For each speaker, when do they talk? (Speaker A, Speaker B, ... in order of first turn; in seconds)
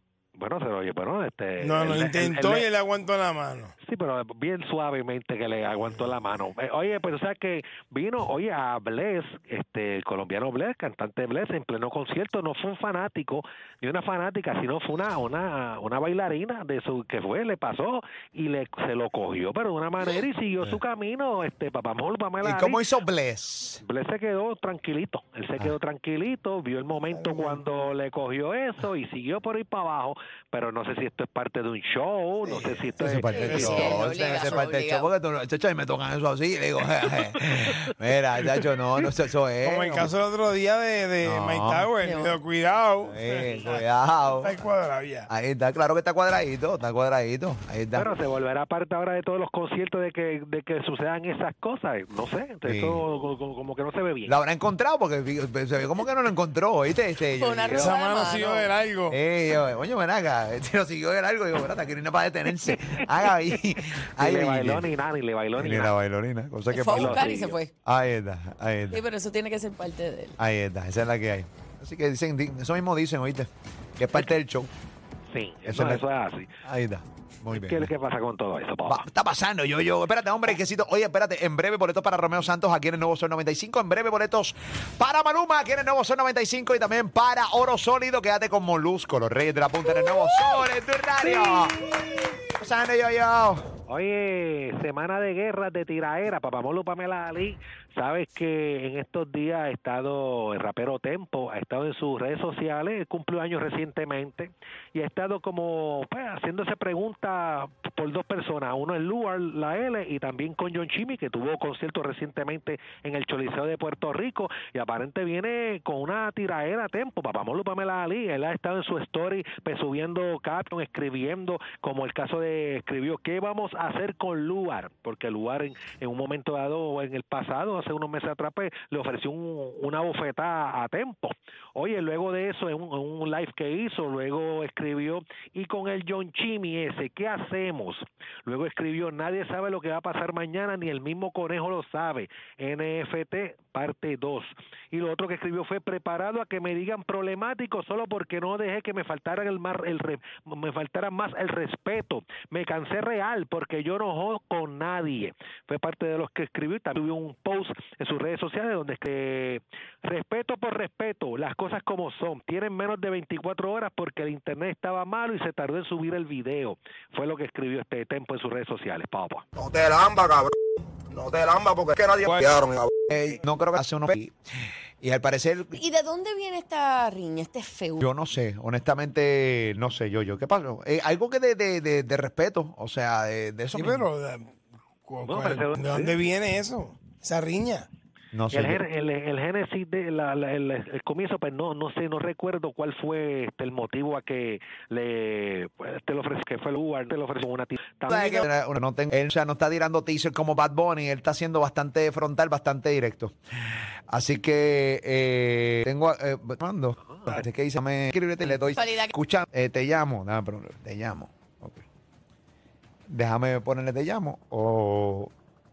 Speaker A: 0.4-2.7, 3.8-22.9, 23.8-33.8, 47.9-54.4, 62.8-63.6, 64.2-65.9, 66.9-67.6, 75.3-76.5, 77.5-79.0, 91.4-92.0, 93.9-169.5, 185.2-186.1, 188.5-198.5, 207.1-207.4
Speaker B: 1.6-3.7, 27.1-27.6, 33.4-34.2, 39.6-43.9, 44.4-45.3, 57.7-59.2, 183.7-184.5, 185.1-187.9
Speaker C: 22.4-23.8, 32.5-40.1, 41.2-41.9, 43.0-44.6, 45.3-48.1, 52.6-53.0, 54.2-57.9, 59.1-64.9, 65.5-67.3, 67.8-69.0, 70.4-74.7, 75.7-76.0, 76.6-77.9, 78.9-91.9, 92.5-93.7, 173.1-174.3, 175.0-175.8, 178.0-184.1, 188.3-188.8, 198.1-203.3, 204.1-211.8, 213.1-215.3
Speaker D: 33.3-35.1, 42.0-42.4, 57.4-58.7, 66.7-67.7, 68.9-70.4, 175.8-178.1, 208.5-209.1
Speaker E: 169.6-170.5, 171.1-172.9